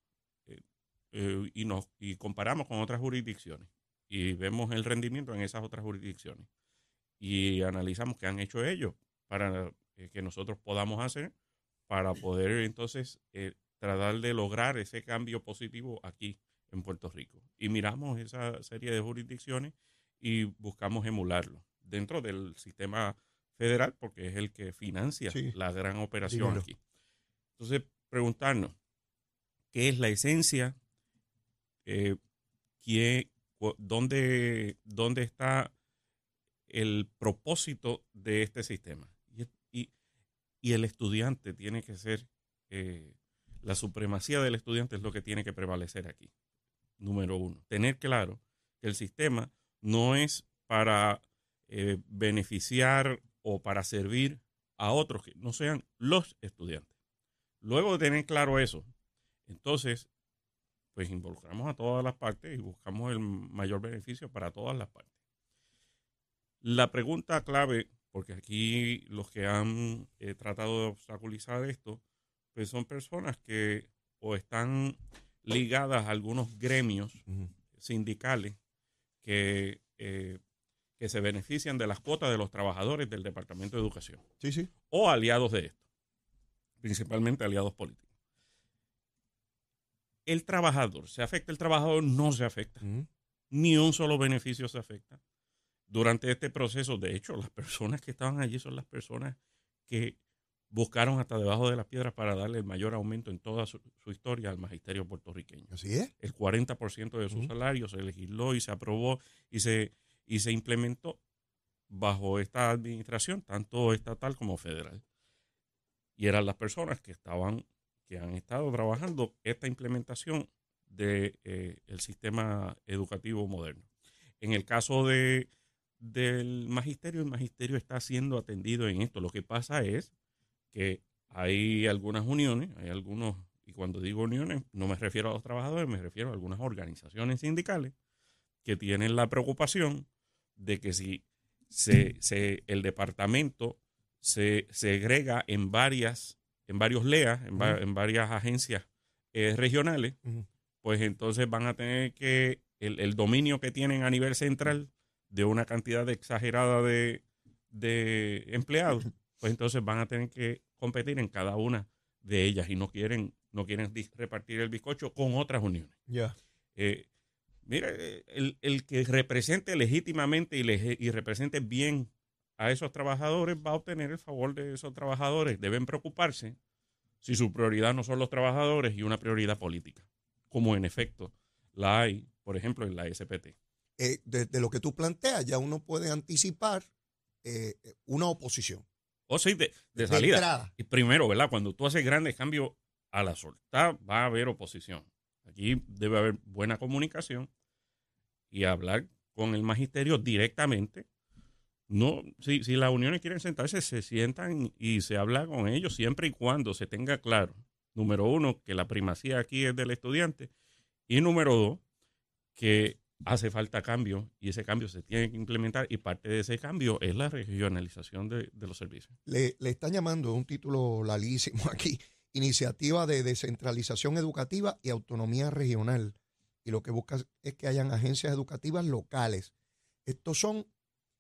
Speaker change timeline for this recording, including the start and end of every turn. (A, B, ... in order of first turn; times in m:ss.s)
0:01.1-0:06.5 A
0:07.2-0:11.3 A
0:11.9-0:26.8 A
0:26.3-0:26.7 B
0:27.6-0:28.8 A
0:29.7-0:30.8 A
0:31.9-0:32.2 A
0:32.8-0:35.7 A
0:36.7-0:39.9 A
0:40.6-0:46.3 A
0:47.0-0:56.9 A
0:57.6-0:58.9 A
0:59.5-1:00.1 A
1:00.9-1:05.1 A
1:06.6-1:12.0 A
1:12.5-1:17.2 A
1:17.8-1:18.6 A
1:19.2-1:20.4 A
1:21.0-1:24.2 A
1:24.4-1:24.7 B
1:24.9-1:25.8 A
1:26.8-1:28.1 A
1:30.3-1:32.9 A
1:32.8-1:33.1 B
1:33.5-1:35.2 A
1:35.9-1:39.4 A
1:39.9-1:40.2 A
1:40.7-1:45.7 A
1:45.7-1:46.1 B
1:46.2-1:51.2 A
1:51.9-1:55.0 A
1:56.2-2:03.9 A
2:04.4-2:10.1 A
2:10.7-2:17.9 A
2:18.6-2:20.1 A
2:20.6-2:30.2 A
2:30.8-2:46.0 A
2:46.1-2:46.4 B
2:46.8-2:47.1 A
2:47.6-2:56.6 A
2:57.2-3:03.6 A
3:04.0-3:06.9 B
3:07.4-3:08.8 B
3:09.3-3:17.5 A
3:10.0-3:10.7 B
3:18.5-3:21.0 A
3:21.9-3:30.5 A
3:31.1-3:31.8 A
3:32.6-3:39.2 A
3:39.3-3:49.5 B
3:50.1-3:50.7 B